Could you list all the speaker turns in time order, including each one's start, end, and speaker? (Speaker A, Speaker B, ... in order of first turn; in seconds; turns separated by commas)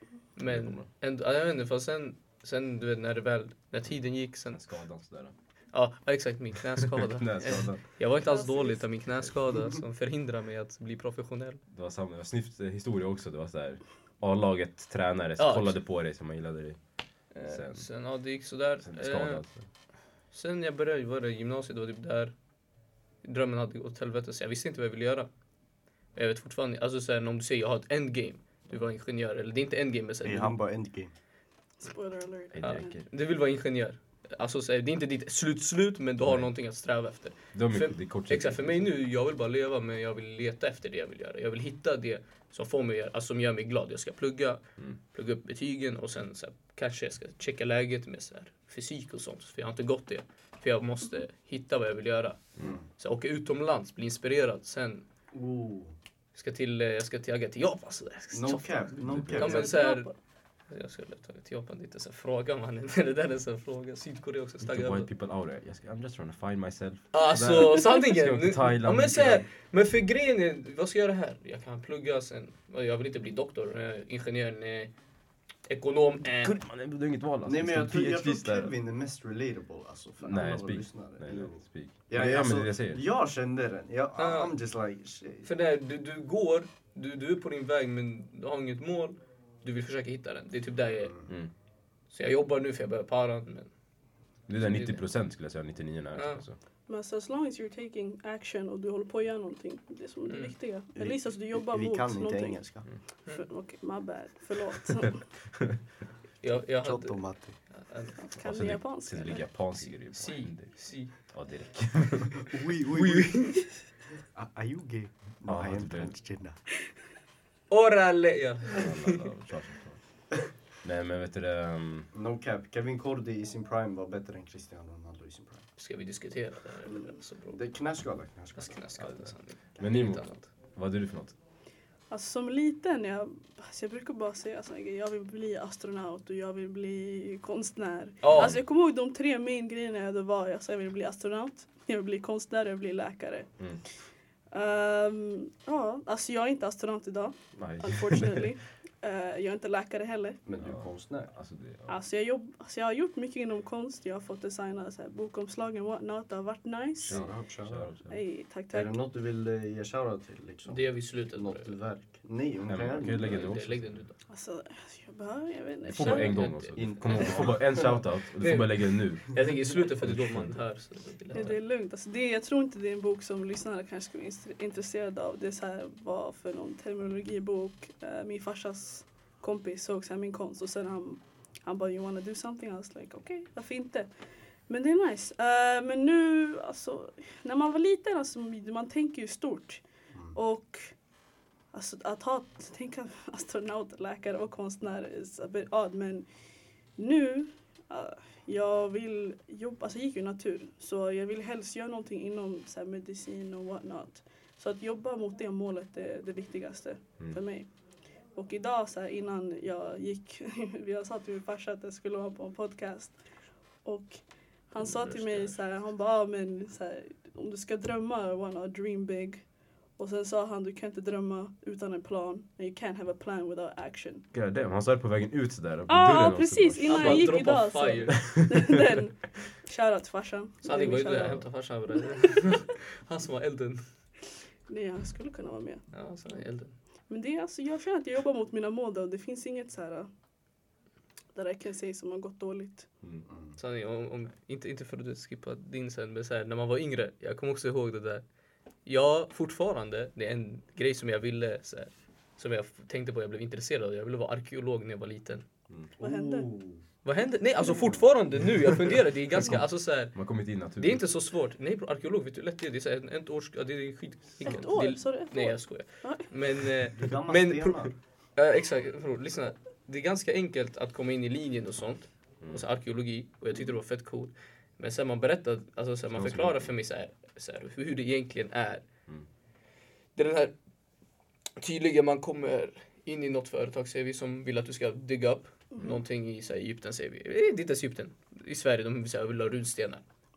Speaker A: 0.3-4.6, Speaker B: 0.4-0.8, Speaker B: 4.5-5.3, Speaker A: 5.7-11.6, Speaker B: 6.7-7.8, Speaker C: 8.2-8.9, Speaker B: 11.7-16.8, Speaker A: 15.4-15.8, Speaker A: 17.3-19.4, Speaker B: 17.4-17.9, Speaker B: 18.8-19.6, Speaker A: 20.3-22.3, Speaker A: 23.2-25.3, Speaker A: 26.1-30.6, Speaker D: 30.2-31.1, Speaker C: 31.8-33.0, Speaker B: 32.5-33.1, Speaker A: 32.6-52.4, Speaker B: 36.2-36.5, Speaker B: 37.5-38.9, Speaker D: 52.6-52.9, Speaker A: 53.0-55.0, Speaker D: 55.3-56.0, Speaker A: 56.3-60.1, Speaker D: 58.3-59.7, Speaker B: 59.0-59.6, Speaker C: 59.3-60.1, Speaker A: 60.7-65.1, Speaker B: 64.6-69.5, Speaker A: 67.1-74.9, Speaker A: 75.7-76.6, Speaker B: 76.4-78.7, Speaker D: 77.4-85.5, Speaker B: 80.2-83.0, Speaker A: 84.2-84.5, Speaker A: 85.4-91.1, Speaker D: 91.0-91.3, Speaker A: 92.1-93.7, Speaker B: 94.5-96.5, Speaker A: 94.6-95.0, Speaker A: 96.1-96.4, Speaker C: 96.9-102.6, Speaker A: 100.3-100.5, Speaker D: 101.0-102.8, Speaker C: 103.3-105.2, Speaker A: 106.4-107.2, Speaker D: 106.8-107.5, Speaker A: 107.7-108.2, Speaker C: 108.2-109.5, Speaker B: 108.3-110.7, Speaker A: 109.8-111.1, Speaker B: 111.3-112.5, Speaker D: 112.4-113.6, Speaker A: 112.8-113.6, Speaker D: 114.2-116.6, Speaker B: 115.5-116.1, Speaker A: 117.7-119.2, Speaker B: 118.7-120.0, Speaker B: 120.8-122.1, Speaker D: 122.1-125.6, Speaker A: 125.8-127.6, Speaker D: 127.5-128.8, Speaker A: 128.6-130.5, Speaker B: 129.0-129.3, Speaker B: 129.8-130.2, Speaker B: 130.7-131.3, Speaker C: 132.1-143.5, Speaker A: 138.2-138.6, Speaker B: 138.3-138.6, Speaker C: 144.5-150.4, Speaker B: 147.6-148.5, Speaker D: 150.4-151.3, Speaker B: 150.6-152.0, Speaker C: 151.9-157.2, Speaker D: 157.0-157.9, Speaker B: 157.1-158.2, Speaker C: 158.1-159.0, Speaker D: 158.7-163.5, Speaker A: 160.7-161.8, Speaker B: 162.7-164.0, Speaker A: 163.2-164.1, Speaker C: 164.3-166.5, Speaker A: 165.9-167.5, Speaker B: 165.9-169.4, Speaker D: 166.8-168.0, Speaker A: 168.4-171.6, Speaker B: 170.0-170.6, Speaker C: 171.3-184.1, Speaker C: 184.7-189.8, Speaker C: 190.3-190.9, Speaker C: 191.7-196.2, Speaker C: 197.0-207.7, Speaker C: 208.3-213.1, Speaker C: 213.8-219.4, Speaker A: 214.8-215.6, Speaker C: 220.0-224.2, Speaker B: 224.3-227.3, Speaker C: 225.9-231.4, Speaker A: 226.8-228.2, Speaker B: 228.3-229.0, Speaker A: 230.6-233.8, Speaker C: 234.7-235.8, Speaker A: 235.9-236.7, Speaker C: 237.1-240.1, Speaker C: 241.3-242.9, Speaker D: 243.3-243.6, Speaker A: 243.6-248.2, Speaker A: 248.8-255.4, Speaker D: 256.0-256.8, Speaker C: 256.0-256.5, Speaker A: 257.0-260.1, Speaker B: 259.4-261.0, Speaker A: 260.8-267.8, Speaker C: 264.4-266.3, Speaker D: 266.9-267.9, Speaker A: 268.4-278.8, Speaker B: 276.1-276.7, Speaker A: 280.1-280.5, Speaker A: 281.6-290.0